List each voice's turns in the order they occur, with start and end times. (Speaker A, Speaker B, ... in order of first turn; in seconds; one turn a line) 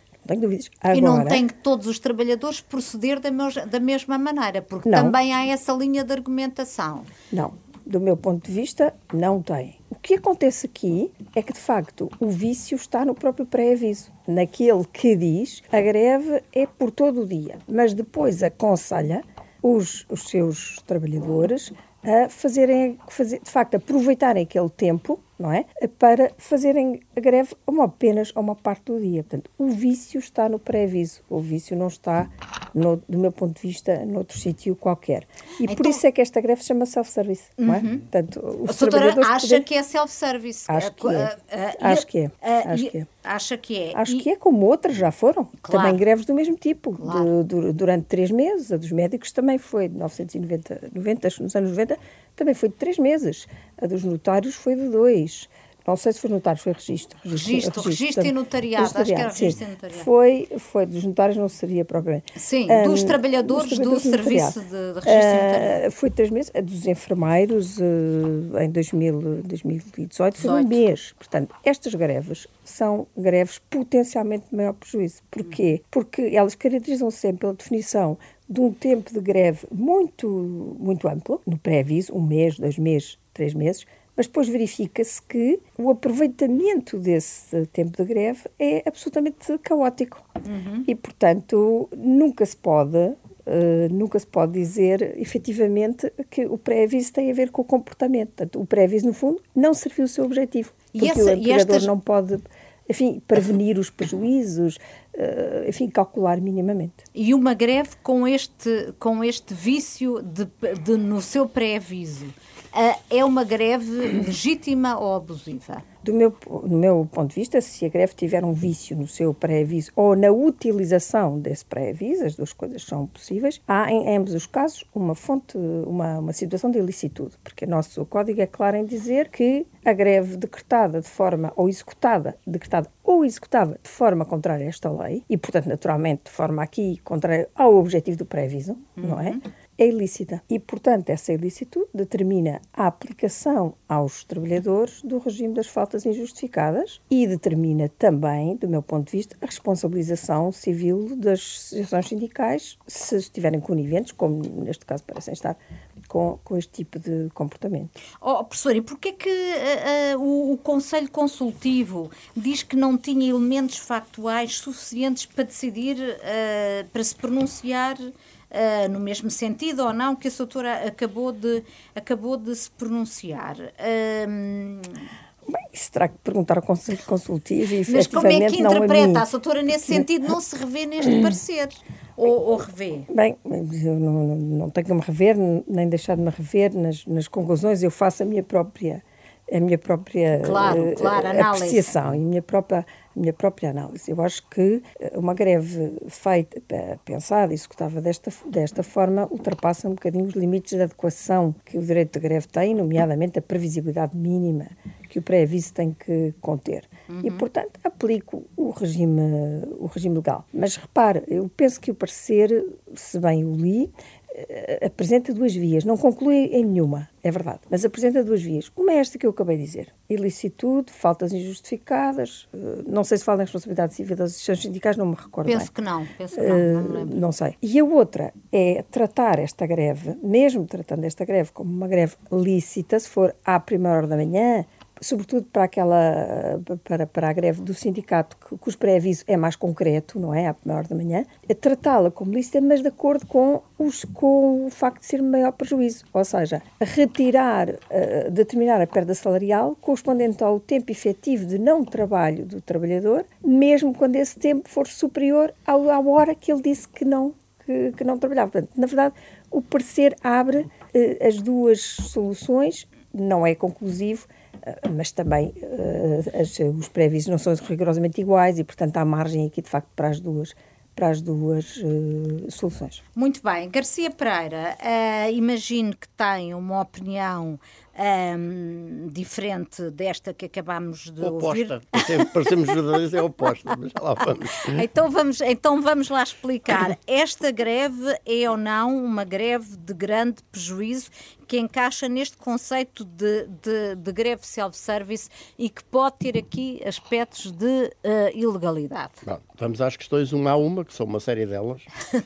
Speaker A: 0.2-1.4
Speaker B: 0.9-7.1
Speaker A: 4.8-5.1
Speaker A: 7.3-39.6
Speaker B: 35.6-36.0
Speaker B: 37.6-38.0
Speaker B: 38.7-44.2
Speaker A: 40.7-43.1
Speaker A: 43.9-90.2
Speaker B: 45.6-46.0
Speaker B: 47.0-47.3
Speaker B: 57.3-60.1
Speaker B: 62.4-65.8
Speaker B: 70.4-70.8
Speaker B: 90.4-90.9
Speaker A: 90.8-107.0
Speaker B: 100.9-101.9
Speaker B: 107.1-115.8
Speaker A: 116.0-157.9
Speaker B: 139.0-139.4
Speaker B: 158.2-168.0
Speaker B: 168.5-175.0
Speaker A: 175.5-179.2
Speaker B: 177.9-183.1
Speaker A: 179.8-180.1
Speaker A: 183.1-225.7
Speaker B: 190.4-191.9
Speaker B: 207.1-207.4
Speaker B: 225.4-227.2
Speaker A: 226.3-273.0
Speaker B: 273.1-282.7
Speaker C: 281.2-284.8
Speaker B: 284.6-299.2
Speaker C: 299.2-301.9